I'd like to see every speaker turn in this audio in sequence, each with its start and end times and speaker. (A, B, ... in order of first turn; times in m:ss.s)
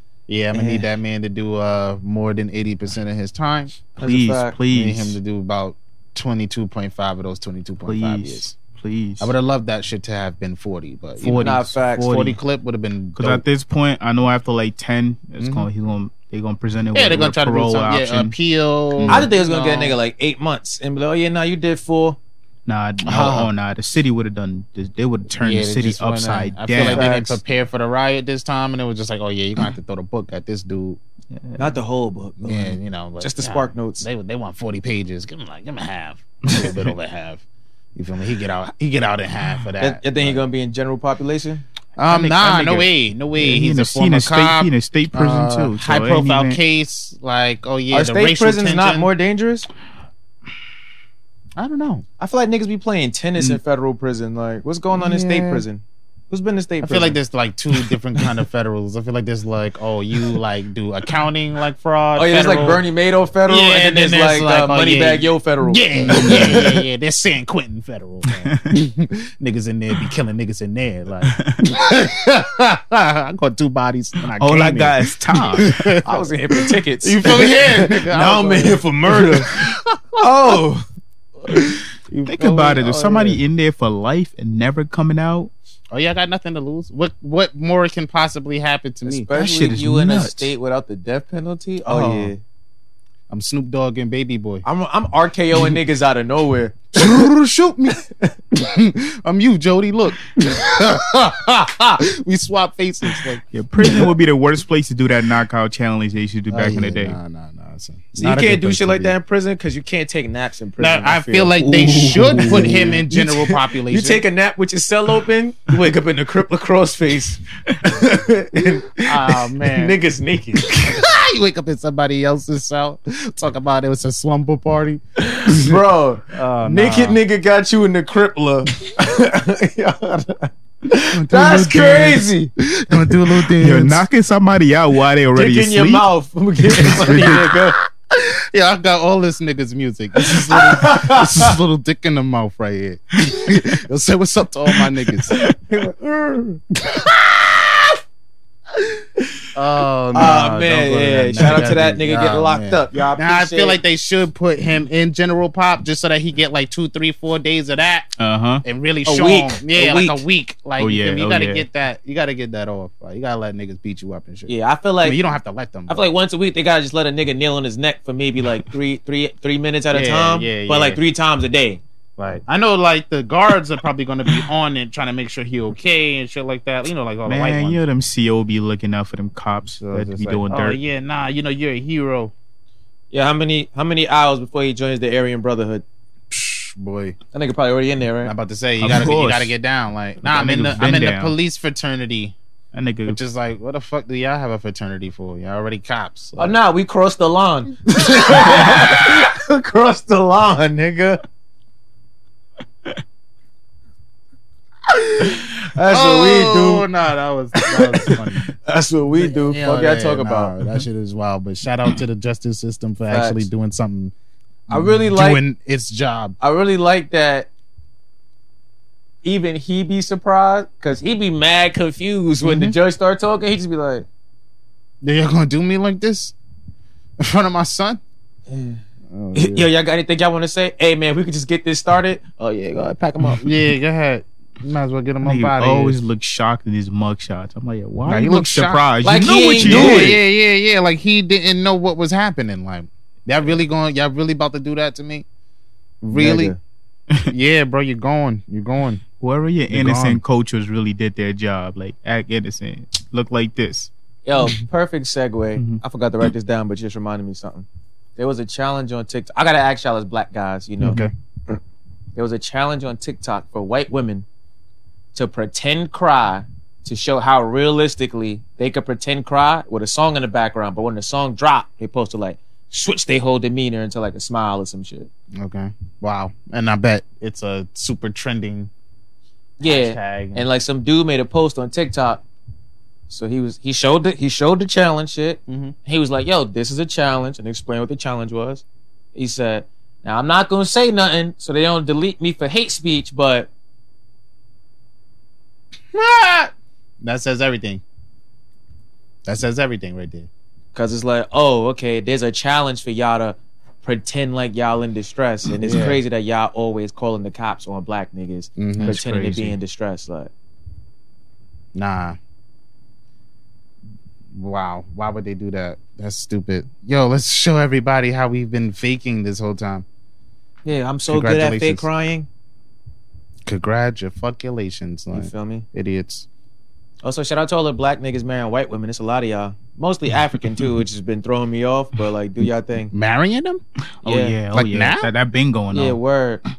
0:00.3-0:03.7 A
0:00.5-0:00.9 B
0:04.0-0:04.6 B
0:04.0-0:05.2 C
0:04.7-0:08.5 A
0:07.8-0:09.3 C
0:09.2-0:13.4 A
0:11.2-0:12.4 C
0:11.4-0:12.1 B
0:13.2-0:18.3 C
0:15.4-0:15.7 A
0:16.9-0:20.0 A
0:18.9-0:19.3 C
0:19.1-0:22.2 B
0:22.7-0:27.1 C
0:23.0-0:23.5 A
0:25.4-0:31.0 A
0:26.8-0:27.4 B
0:31.3-0:31.8 C
0:31.6-0:34.0 B
0:32.4-0:37.4 A
0:36.5-0:36.8 C
0:37.9-0:40.5 A
0:39.8-0:42.8 B
0:42.0-0:49.1 A
0:43.4-0:46.6 C
0:47.9-0:49.7 B
0:51.6-0:52.0 A
0:52.2-0:57.2 B
0:54.9-0:55.6 A
0:56.8-1:02.8 A
1:02.2-1:06.5 B
1:03.5-1:16.3 A
1:06.1-1:06.8 C
1:08.3-1:08.8 C
1:11.3-1:11.8 C
1:14.3-1:16.0 C
1:16.0-1:20.8 B
1:17.0-1:20.6 A
1:21.5-1:23.4 A
1:22.2-1:25.5 C
1:25.9-1:29.3 A
1:29.0-1:32.4 B
1:29.3-1:30.5 C
1:31.8-1:32.3 A
1:33.3-1:34.6 A
1:34.6-1:37.2 B
1:36.9-1:38.0 A
1:38.5-1:44.1 A
1:43.5-1:47.2 C
1:46.5-1:49.1 A
1:48.1-2:01.0 B
1:50.8-1:54.2 A
1:52.1-1:52.9 C
1:59.0-2:00.0 A
2:00.7-2:05.8 A
2:05.2-2:12.5 B
2:06.3-2:07.2 A
2:11.1-2:14.0 A
2:13.5-2:16.1 C
2:15.3-2:17.8 B
2:16.7-2:17.6 C
2:16.9-2:17.4 A
2:18.1-2:25.4 A
2:20.2-2:21.6 B
2:25.3-2:26.6 B
2:26.8-2:27.2 A
2:28.8-2:29.2 B
2:29.5-2:38.1 A
2:30.1-2:33.8 B
2:31.4-2:31.7 C
2:38.2-2:38.6 C
2:38.6-2:44.5 A
2:39.0-2:40.2 B
2:40.8-2:41.6 C
2:44.5-2:45.2 B
2:45.0-2:46.0 A
2:45.9-2:51.8 B
2:49.9-2:51.0 A
2:52.2-2:57.8 A
2:57.2-3:00.8 C
2:59.8-3:02.3 A
3:03.1-3:05.8 B
3:06.3-3:07.2 A
3:07.3-3:08.3 B
3:08.2-3:12.4 A
3:08.8-3:09.5 C
3:10.2-3:11.3 C
3:12.7-3:13.2 C
3:13.0-3:16.6 A
3:16.4-3:21.2 B
3:18.5-3:18.8 A
3:24.9-3:26.9 B
3:25.9-3:28.5 A
3:27.6-3:30.5 B
3:29.2-3:34.1 A
3:33.1-3:33.5 B
3:34.7-3:35.4 B
3:34.7-3:36.4 A
3:36.4-3:37.5 B
3:39.2-3:44.0 B
3:42.4-3:42.8 A
3:45.0-3:46.3 A
3:47.2-3:48.0 A
3:48.5-3:48.8 B
3:49.1-3:49.7 A
3:49.3-3:53.5 B
3:53.4-3:56.0 A
3:55.2-4:00.2 C
3:58.0-3:58.8 A
3:59.0-4:00.2 B
3:59.6-4:05.2 A
4:06.0-4:06.5 A
4:06.1-4:06.6 B
4:07.3-4:09.0 A
4:09.2-4:13.9 C
4:09.7-4:10.2 A
4:14.2-4:17.6 B
4:18.2-4:21.0 B
4:20.8-4:21.1 C
4:20.8-4:21.1 A
4:22.2-4:24.2 B
4:25.1-4:35.1 B
4:35.3-4:38.7 A
4:39.6-4:42.2 B
4:39.6-4:40.4 A
4:43.1-4:48.6 B
4:45.5-4:45.7 A
4:49.1-4:53.5 B
4:55.9-4:57.8 A
4:59.2-5:00.3 A
5:00.7-5:10.3 B
5:05.6-5:06.0 A
5:08.6-5:09.0 A
5:08.8-5:09.5 C
5:11.7-5:12.2 A
5:14.3-5:19.8 A
5:20.6-5:22.3 B
5:21.1-5:21.9 A
5:23.4-5:26.2 A
5:25.1-5:25.6 B
5:27.0-5:32.9 B
5:32.9-5:33.6 A
5:34.0-5:36.0 C
5:34.0-5:34.4 B
5:34.5-5:35.1 A
5:35.7-5:36.4 B